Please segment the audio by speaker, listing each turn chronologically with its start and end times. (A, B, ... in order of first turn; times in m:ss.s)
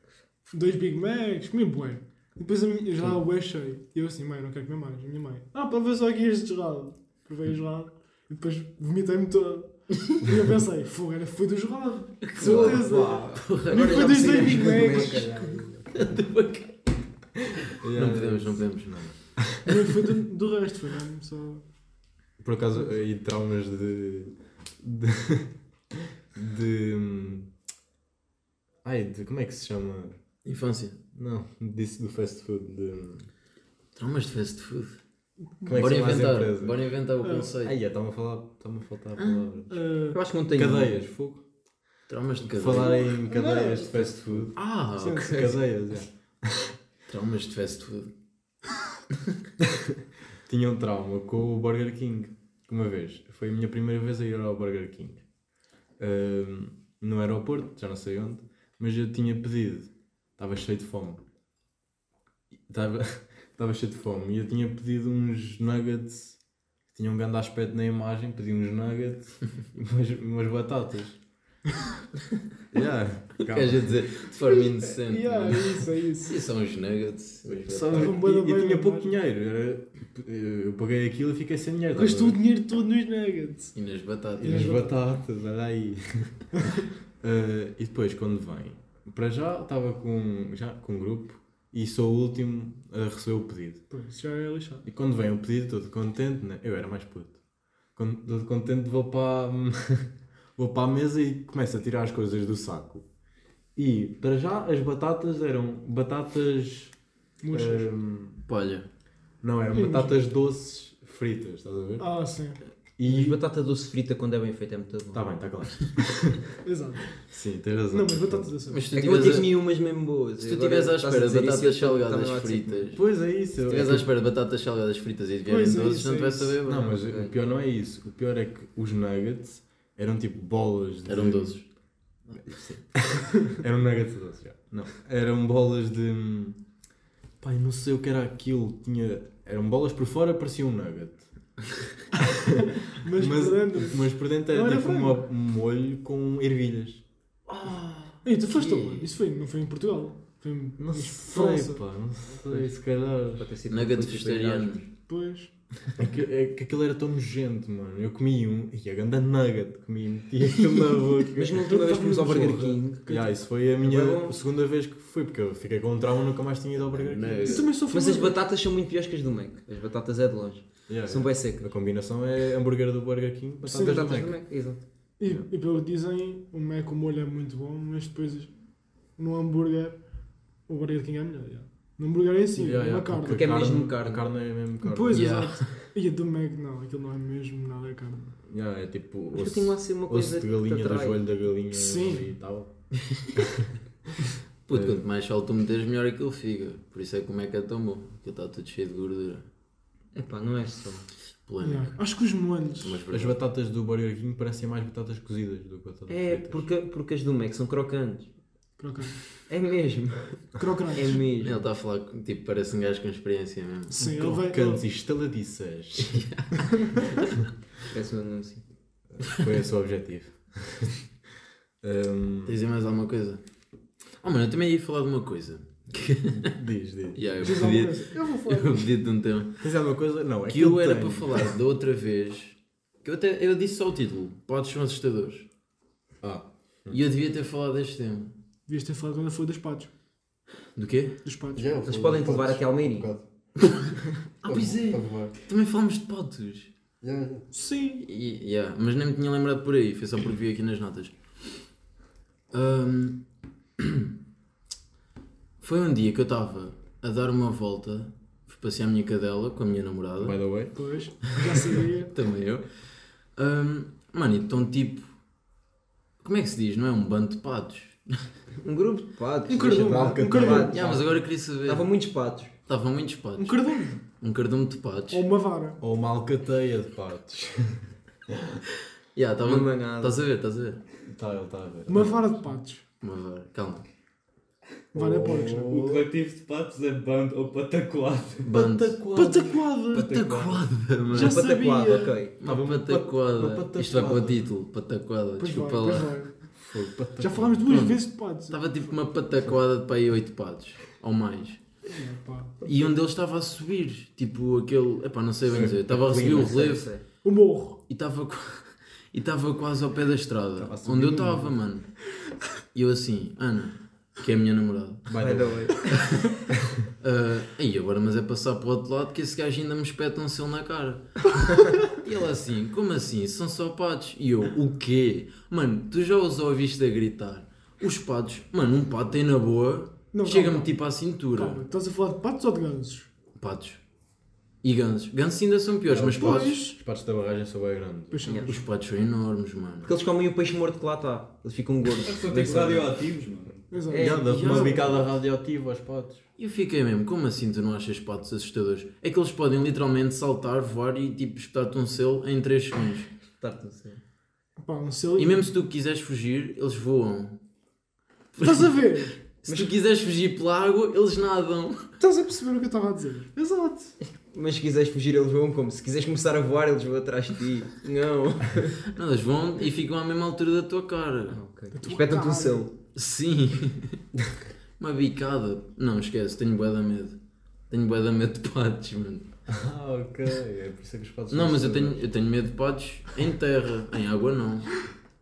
0:00.5-0:15.3 A
0:12.3-0:14.6 B
0:12.4-0:15.5 C
0:14.6-0:16.1 D
0:15.9-0:16.8 B
0:17.7-0:19.7 D
0:17.9-0:19.1 B
0:19.6-0:21.6 A
0:22.4-0:27.5 D
0:28.8-0:30.2 D
0:30.4-0:31.0 B
0:31.1-0:33.3 D
0:33.9-0:35.0 B
0:35.6-0:36.0 A
0:35.7-0:36.9 D
0:35.7-0:37.8 B
0:37.2-0:37.5 A
0:37.6-0:39.8 D
0:39.7-0:40.2 A
0:40.1-0:40.9 C
0:40.5-0:41.4 D
0:42.1-0:43.1 B
0:42.4-0:46.8 D
0:42.8-0:45.5 A
0:44.5-0:45.5 B
0:47.1-0:48.1 B
0:49.7-0:55.2 D
0:56.0-1:01.2 D
1:02.7-1:06.4 D
1:06.9-1:11.2 D
1:12.7-1:14.0 D
1:13.4-1:18.2 B
1:14.5-1:16.4 A
1:17.4-1:22.4 D
1:17.8-1:19.1 A
1:21.9-1:23.8 A
1:23.8-1:24.8 B
1:24.4-1:26.5 D
1:24.4-1:24.9 A
1:27.2-1:33.8 D
1:33.9-1:34.8 A
1:34.8-1:37.4 D
1:38.0-1:43.0 D
1:43.8-1:46.9 D
1:47.4-1:47.9 A
1:47.5-1:48.4 D
1:48.4-1:48.9 B
1:49.4-1:52.1 D
1:49.7-1:50.2 A
1:52.0-1:52.6 A
1:53.0-1:53.4 D
1:53.0-1:55.2 C
1:55.1-1:56.5 D
1:56.6-1:57.1 A
1:57.2-1:58.5 D
1:57.9-1:58.9 A
1:58.7-1:59.6 B
1:58.9-2:02.8 C
2:00.4-2:03.0 B
2:02.9-2:04.1 D
2:03.6-2:07.0 B
2:05.5-2:06.6 A
2:06.6-2:11.6 D
2:06.9-2:07.3 C
2:11.1-2:11.6 B
2:12.4-2:16.6 D
2:17.4-2:21.3 D
2:22.2-2:27.0 D
2:22.9-2:25.2 A
2:27.5-2:29.1 B
2:28.2-2:31.8 A
2:30.8-2:33.5 D
2:33.4-2:34.8 C
2:33.7-2:34.8 B
2:35.1-2:35.5 A
2:36.0-2:47.6 D
2:41.4-2:44.3 C
2:41.6-2:43.3 A
2:47.0-2:51.6 C
2:47.2-2:47.6 B
2:47.4-2:48.4 A
2:50.9-2:54.4 D
2:53.6-2:54.2 A
2:53.7-2:54.8 C
2:55.2-2:58.5 A
2:59.2-3:00.0 A
3:00.7-3:03.5 A
3:02.6-3:05.5 D
3:03.3-3:04.2 C
3:04.8-3:08.3 A
3:05.1-3:05.8 B
3:08.4-3:12.7 D
3:09.3-3:11.2 C
3:11.7-3:12.3 A
3:13.4-3:13.7 D
3:14.7-3:19.4 B
3:14.7-3:15.0 D
3:20.1-3:21.0 C
3:21.4-3:22.0 B
3:21.6-3:23.0 A
3:22.8-3:23.4 B
3:23.1-3:26.7 D
3:26.1-3:28.3 C
3:28.8-3:29.2 A
3:29.5-3:31.6 C
3:30.6-3:31.2 A
3:31.4-3:34.2 B
3:33.9-3:34.8 A
3:34.1-3:36.2 D
3:36.0-3:37.3 B
3:37.9-3:38.6 C
3:39.1-3:41.0 D
3:41.8-3:42.6 D
3:42.5-3:43.4 B
3:44.2-3:46.5 B
3:46.3-3:47.8 D
3:47.1-3:49.7 B
3:47.4-3:48.9 A
3:49.6-3:51.5 D
3:50.5-3:55.5 B
3:56.2-3:57.0 D
3:56.9-3:58.3 B
3:58.7-3:59.9 A
4:00.8-4:01.2 B
4:01.2-4:01.7 A
4:01.5-4:03.2 D
4:01.8-4:03.1 C
4:04.4-4:06.7 B
4:04.4-4:05.3 D
4:07.0-4:07.5 D
4:07.5-4:08.1 A
4:08.0-4:11.1 B
4:12.5-4:13.2 B
4:13.8-4:14.1 B
4:15.6-4:20.4 B
4:20.2-4:20.8 D
4:20.8-4:22.1 A
4:21.8-4:25.1 B
4:26.2-4:28.2 B
4:28.6-4:31.0 C
4:29.5-4:30.7 A
4:29.6-4:31.2 D
4:30.5-4:31.8 B
4:31.6-4:32.5 C
4:32.7-4:35.2 B
4:33.4-4:34.0 A
4:35.1-4:35.8 A
4:35.8-4:38.6 D
4:39.1-4:40.8 B
4:39.4-4:40.2 C
4:41.0-4:42.4 D
4:41.9-4:42.8 A
4:43.0-4:43.9 B
4:44.9-4:46.1 D
4:45.0-4:45.8 A
4:45.7-4:48.5 E
4:48.5-4:49.0 B
4:48.5-4:49.7 D
4:49.1-4:50.1 A
4:49.9-4:50.7 E
4:49.9-4:51.4 B
4:51.1-4:52.3 C
4:51.1-4:52.2 A
4:52.4-4:56.2 B
4:52.4-4:54.5 D
4:55.4-4:56.4 A
4:56.6-4:57.9 D
4:57.2-4:58.6 A
4:57.7-5:01.6 B
5:01.8-5:02.6 A
5:02.6-5:06.9 B
5:05.4-5:06.7 D
5:06.2-5:07.0 C
5:07.2-5:07.8 A
5:07.9-5:11.9 B
5:10.5-5:11.6 D
5:12.7-5:15.1 B
5:15.1-5:15.8 D
5:15.2-5:16.0 C
5:16.0-5:16.2 B
5:16.5-5:16.8 D
5:17.0-5:31.6 B
5:30.1-5:30.7 A
5:31.3-5:33.1 A
5:33.4-5:33.8 B
5:34.6-5:36.6 B
5:35.8-5:38.2 D
5:36.1-5:36.8 A
5:38.1-5:38.6 A
5:38.4-5:39.9 B
5:39.8-5:42.9 C
5:42.0-5:43.7 E
5:43.7-5:44.8 A
5:43.9-5:44.7 C
5:43.9-5:46.2 D
5:44.2-5:45.0 B
5:46.4-5:53.1 B
5:53.4-5:54.0 C
5:54.6-5:55.5 A
5:55.2-5:57.4 B
5:58.4-5:58.7 B
5:58.4-5:59.2 A
5:59.4-6:01.9 B
5:59.5-5:59.7 C
6:02.0-6:04.0 A
6:04.3-6:08.8 C
6:08.9-6:11.4 B
6:11.3-6:12.7 C
6:11.7-6:12.6 A
6:13.0-6:14.0 B
6:14.8-6:17.2 B
6:17.7-6:19.3 B
6:19.5-6:22.1 D
6:21.3-6:24.7 B